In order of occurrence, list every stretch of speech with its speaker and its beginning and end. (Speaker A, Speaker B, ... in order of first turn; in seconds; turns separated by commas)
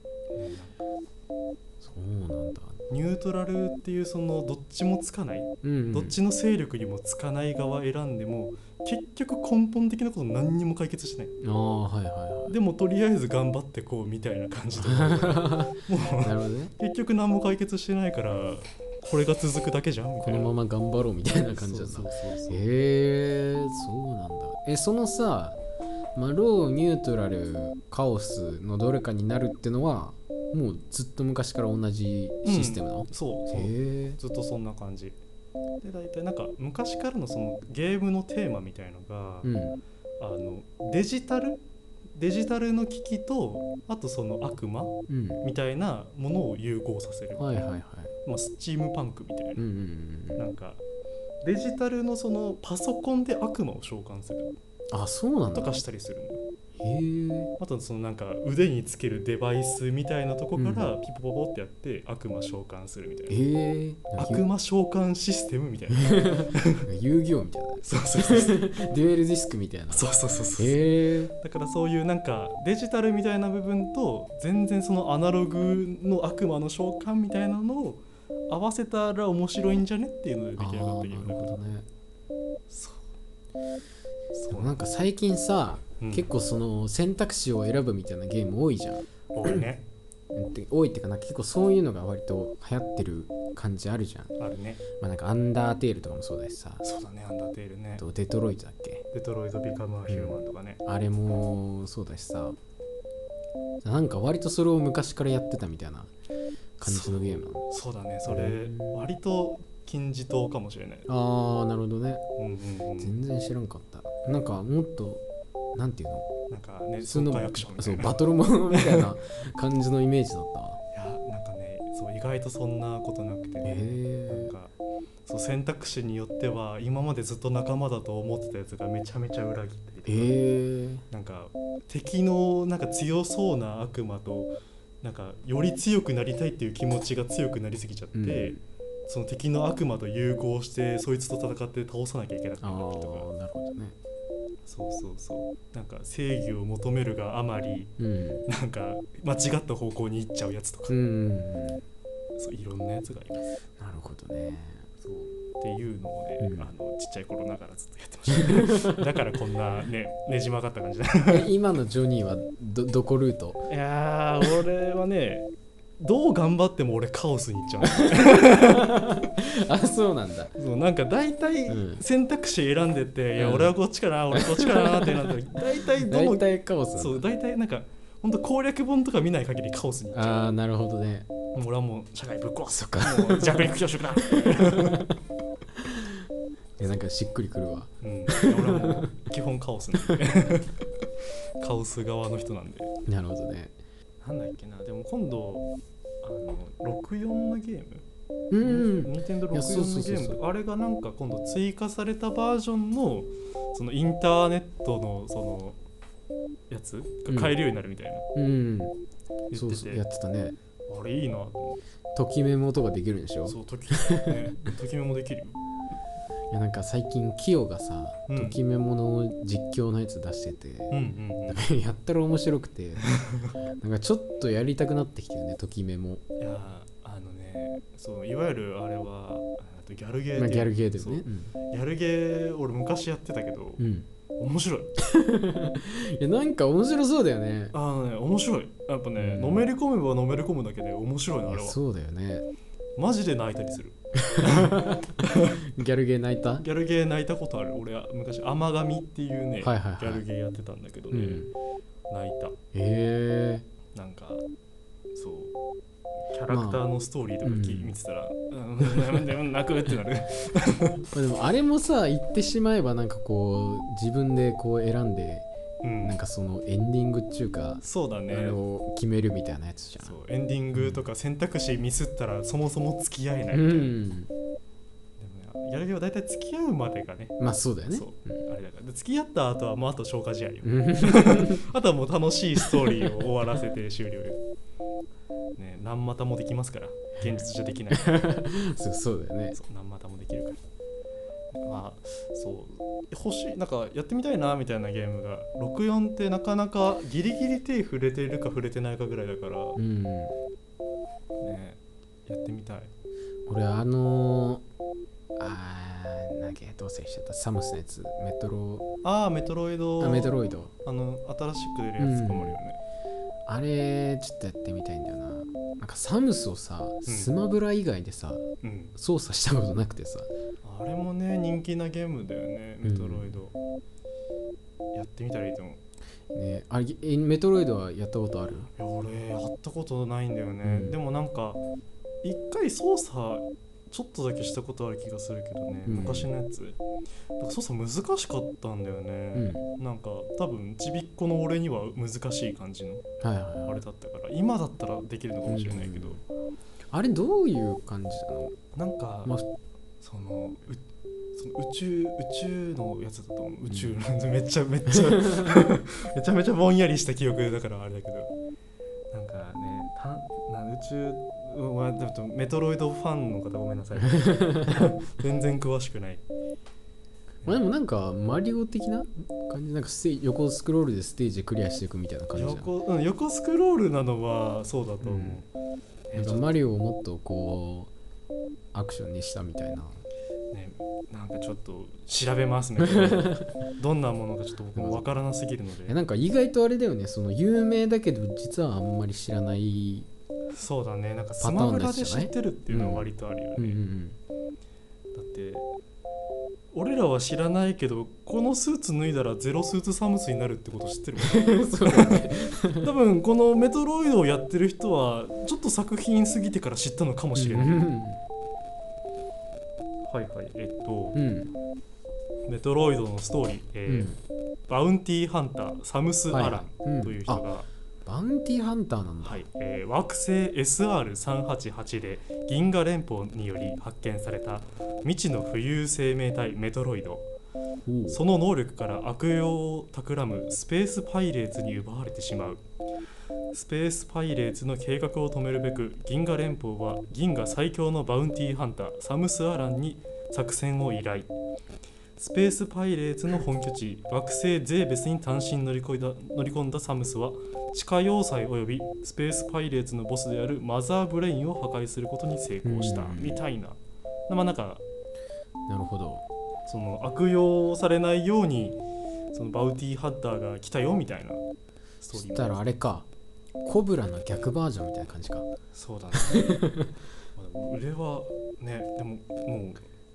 Speaker A: 0.3-0.8, Speaker B: 1.8-2.8, Speaker A: 2.9-11.3, Speaker B: 5.6-6.2, Speaker B: 11.4-12.5, Speaker A: 12.5-20.5, Speaker B: 14.8-16.7, Speaker B: 20.2-25.6, Speaker A: 21.5-22.6, Speaker B: 26.1-34.2, Speaker A: 32.4-35.2, Speaker A: 35.8-39.5, Speaker B: 39.4-39.8, Speaker A: 40.2-41.6, Speaker A: 42.1-47.7, Speaker B: 45.1-45.4, Speaker B: 47.4-48.1, Speaker A: 48.2-49.6, Speaker B: 49.6-50.4, Speaker A: 50.4-50.8, Speaker A: 51.4-54.5, Speaker B: 54.9-55.7, Speaker A: 55.5-56.4, Speaker B: 56.8-57.5, Speaker A: 57.6-63.4, Speaker B: 60.5-60.9, Speaker B: 63.3-64.4, Speaker A: 64.2-66.9, Speaker B: 65.9-71.3, Speaker A: 67.8-68.6, Speaker A: 69.9-70.8, Speaker A: 71.4-81.6, Speaker B: 80.6-81.8, Speaker A: 82.7-83.0, Speaker A: 84.3-84.8, Speaker B: 84.5-89.6, Speaker A: 86.0-86.3, Speaker A: 89.3-89.8, Speaker B: 90.3-94.3, Speaker A: 94.4-94.8, Speaker B: 95.0-96.8, Speaker A: 96.8-98.0, Speaker B: 98.0-99.0, Speaker A: 99.1-100.8, Speaker B: 100.1-102.6, Speaker B: 103.8-106.1, Speaker B: 106.8-107.6, Speaker A: 106.8-111.1, Speaker B: 108.3-109.0, Speaker B: 111.1-112.2, Speaker A: 112.4-113.2, Speaker B: 113.0-115.2, Speaker B: 115.7-116.3, Speaker A: 116.5-119.1, Speaker B: 117.0-120.8, Speaker A: 120.9-124.7, Speaker B: 123.6-124.5, Speaker A: 125.2-130.3, Speaker B: 130.1-131.0, Speaker A: 131.1-143.3, Speaker B: 138.1-138.6, Speaker B: 142.6-143.9, Speaker A: 144.7-147.9, Speaker B: 148.0-148.4, Speaker A: 148.5-150.9, Speaker B: 150.9-151.8, Speaker A: 152.4-153.6, Speaker B: 153.8-154.9, Speaker A: 155.0-161.4, Speaker B: 156.4-156.7, Speaker B: 158.3-159.0, Speaker B: 161.3-163.6, Speaker A: 163.7-165.5, Speaker A: 166.0-169.0, Speaker B: 167.9-170.5, Speaker A: 170.6-180.5, Speaker B: 171.7-172.0, Speaker B: 173.4-173.7, Speaker B: 174.3-175.3, Speaker B: 176.1-177.2, Speaker B: 180.1-181.3, Speaker A: 181.5-185.1, Speaker B: 182.7-185.1, Speaker B: 185.8-186.2, Speaker B: 186.8-189.1, Speaker A: 188.0-190.8, Speaker A: 191.6-192.9, Speaker B: 193.1-193.8, Speaker A: 194.2-195.7, Speaker A: 196.2-198.0, Speaker B: 198.5-200.4, Speaker A: 198.6-205.8, Speaker A: 206.7-208.2, Speaker B: 207.3-207.5, Speaker B: 208.3-208.9, Speaker A: 209.5-210.0, Speaker B: 209.5-210.6, Speaker A: 210.9-211.8, Speaker B: 212.1-214.4, Speaker A: 213.4-215.6, Speaker B: 216.5-223.0, Speaker A: 218.3-218.6, Speaker A: 220.9-221.7, Speaker A: 223.0-223.6, Speaker B: 223.8-226.2, Speaker A: 226.4-233.8, Speaker B: 230.3-231.5, Speaker B: 233.8-234.1, Speaker A: 234.4-234.9, Speaker B: 235.0-237.7, Speaker A: 237.7-241.8, Speaker B: 239.2-239.7, Speaker B: 241.5-242.5, Speaker A: 243.0-245.6, Speaker B: 244.2-246.6, Speaker A: 246.6-251.5, Speaker B: 249.6-250.2, Speaker B: 251.1-251.5, Speaker A: 252.1-252.6, Speaker B: 252.7-253.7, Speaker A: 253.9-254.4, Speaker A: 255.1-255.5, Speaker A: 256.3-261.0, Speaker B: 256.5-256.8, Speaker B: 257.4-258.0, Speaker B: 261.1-265.5, Speaker A: 265.8-266.2, Speaker B: 266.0-270.1, Speaker A: 267.8-268.6, Speaker A: 270.0-273.9, Speaker B: 270.7-271.0, Speaker B: 273.5-274.3, Speaker A: 275.2-277.4, Speaker B: 277.4-278.3, Speaker A: 277.9-284.4, Speaker B: 280.6-281.6, Speaker B: 282.7-283.1, Speaker A: 285.6-288.2, Speaker B: 287.9-289.6, Speaker A: 289.5-290.6, Speaker A: 291.6-299.8, Speaker B: 299.8-300.3, Speaker A: 301.4-302.9, Speaker B: 303.5-304.6, Speaker B: 305.4-308.9, Speaker A: 309.0-312.8, Speaker B: 310.0-310.7, Speaker B: 312.0-312.6, Speaker B: 313.5-318.4, Speaker A: 317.1-317.3, Speaker A: 318.6-318.9, Speaker B: 318.9-320.3, Speaker A: 320.6-323.5, Speaker B: 322.8-323.3, Speaker A: 324.9-325.8, Speaker B: 326.3-328.7, Speaker A: 328.8-331.6, Speaker B: 330.6-331.0, Speaker A: 332.2-336.8, Speaker B: 335.9-336.3, Speaker A: 337.4-343.0, Speaker B: 339.3-339.6, Speaker B: 343.2-343.8, Speaker A: 343.6-346.2, Speaker B: 345.4-346.2, Speaker B: 346.9-348.6, Speaker A: 348.7-349.3, Speaker A: 350.0-350.8, Speaker A: 351.4-358.3, Speaker B: 353.7-353.9, Speaker B: 354.9-355.6, Speaker A: 359.1-366.2, Speaker B: 364.0-364.9, Speaker B: 367.4-372.7, Speaker A: 372.3-375.5, Speaker B: 375.0-375.4, Speaker A: 376.1-376.5, Speaker B: 376.1-377.9, Speaker B: 378.7-380.0, Speaker A: 380.5-385.9, Speaker B: 382.9-383.5, Speaker B: 384.7-385.1, Speaker B: 385.9-390.1, Speaker A: 390.5-393.8, Speaker B: 391.4-394.2, Speaker A: 395.1-395.7, Speaker A: 396.7-407.9, Speaker B: 401.2-402.9, Speaker B: 407.4-408.2, Speaker A: 410.1-411.2, Speaker B: 411.1-411.5, Speaker A: 412.5-414.1, Speaker B: 413.9-414.2, Speaker A: 414.7-417.7, Speaker B: 416.3-417.4, Speaker B: 418.1-419.4, Speaker A: 419.2-427.3, Speaker B: 427.9-428.2, Speaker A: 428.1-432.6, Speaker A: 433.5-441.3, Speaker A: 442.2-453.8, Speaker B: 452.6-453.4, Speaker A: 454.3-454.8, Speaker B: 455.7-456.2, Speaker A: 456.7-458.8, Speaker A: 459.3-461.4, Speaker A: 462.0-462.6, Speaker B: 462.1-463.1, Speaker B: 463.6-465.4, Speaker A: 465.7-466.6, Speaker B: 466.1-466.9, Speaker A: 467.4-469.8